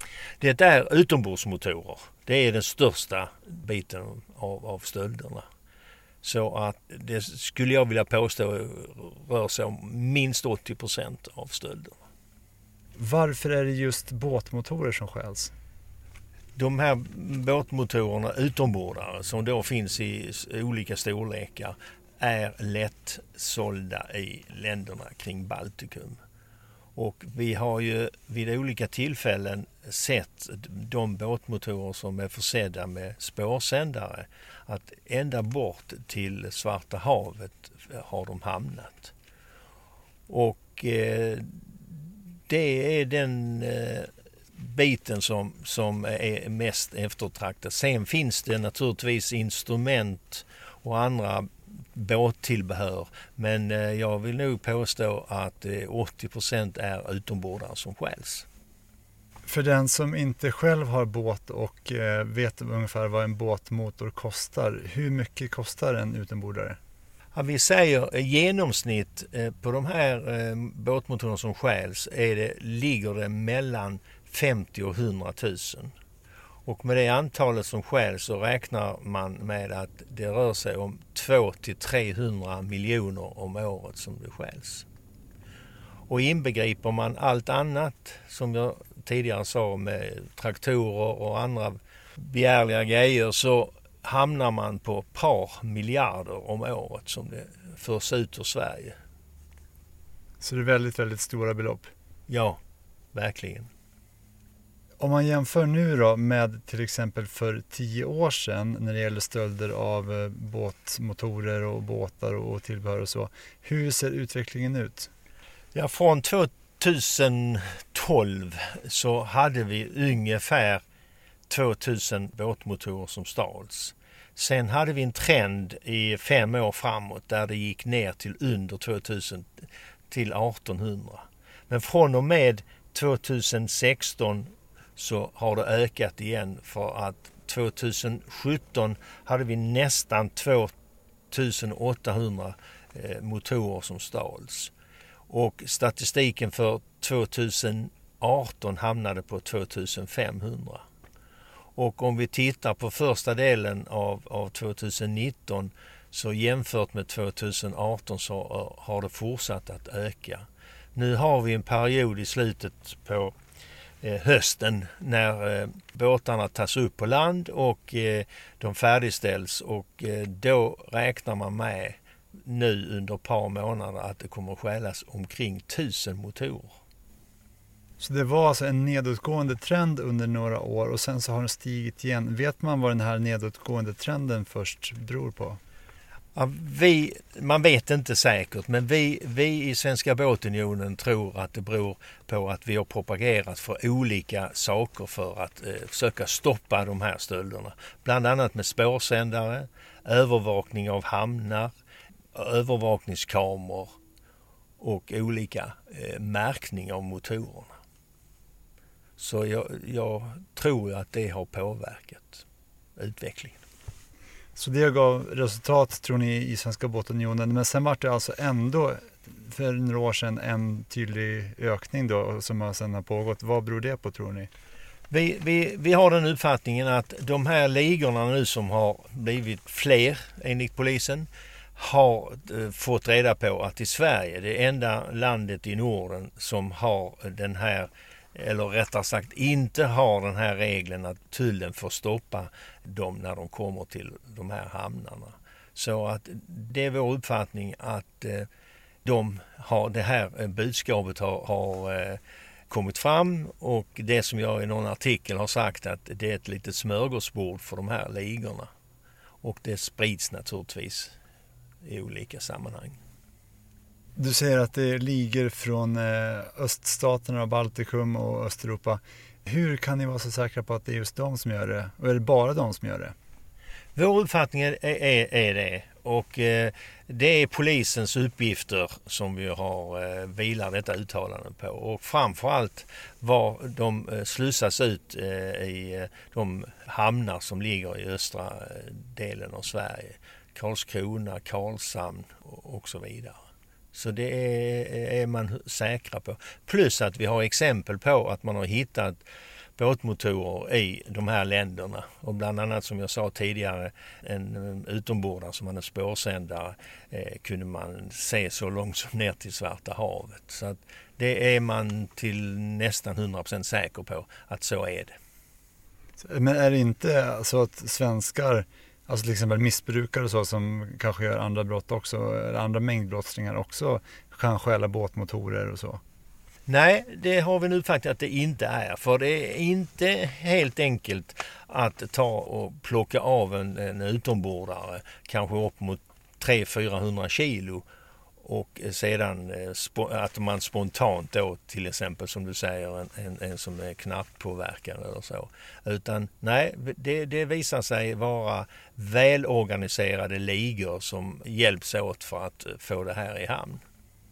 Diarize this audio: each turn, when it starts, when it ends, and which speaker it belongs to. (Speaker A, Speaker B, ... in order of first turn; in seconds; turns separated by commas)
Speaker A: 0.4-5.5, Speaker A: 6.2-12.0, Speaker B: 13.0-15.5, Speaker A: 16.6-26.2, Speaker A: 26.9-39.1, Speaker A: 40.3-58.5, Speaker B: 59.5-66.8, Speaker A: 67.3-75.9, Speaker A: 76.7-84.9, Speaker A: 86.1-99.0, Speaker B: 100.4-101.9, Speaker A: 102.3-102.6, Speaker A: 103.1-103.7, Speaker B: 105.0-115.1, Speaker A: 115.7-120.8, Speaker A: 121.5-140.7, Speaker A: 141.3-144.7, Speaker A: 145.3-150.8, Speaker A: 151.8-163.3, Speaker A: 164.0-176.8, Speaker B: 178.0-185.6, Speaker A: 186.3-201.7, Speaker A: 202.3-203.9, Speaker A: 204.8-207.7, Speaker A: 209.2-212.4, Speaker A: 212.9-213.6, Speaker B: 214.6-224.5, Speaker A: 225.1-248.5, Speaker A: 249.0-258.7, Speaker A: 259.4-261.1, Speaker A: 261.8-263.0, Speaker B: 264.2-273.1, Speaker A: 273.9-293.4, Speaker A: 293.9-299.2, Speaker A: 299.8-315.1, Speaker B: 316.2-326.0, Speaker A: 326.7-337.9, Speaker A: 338.4-353.8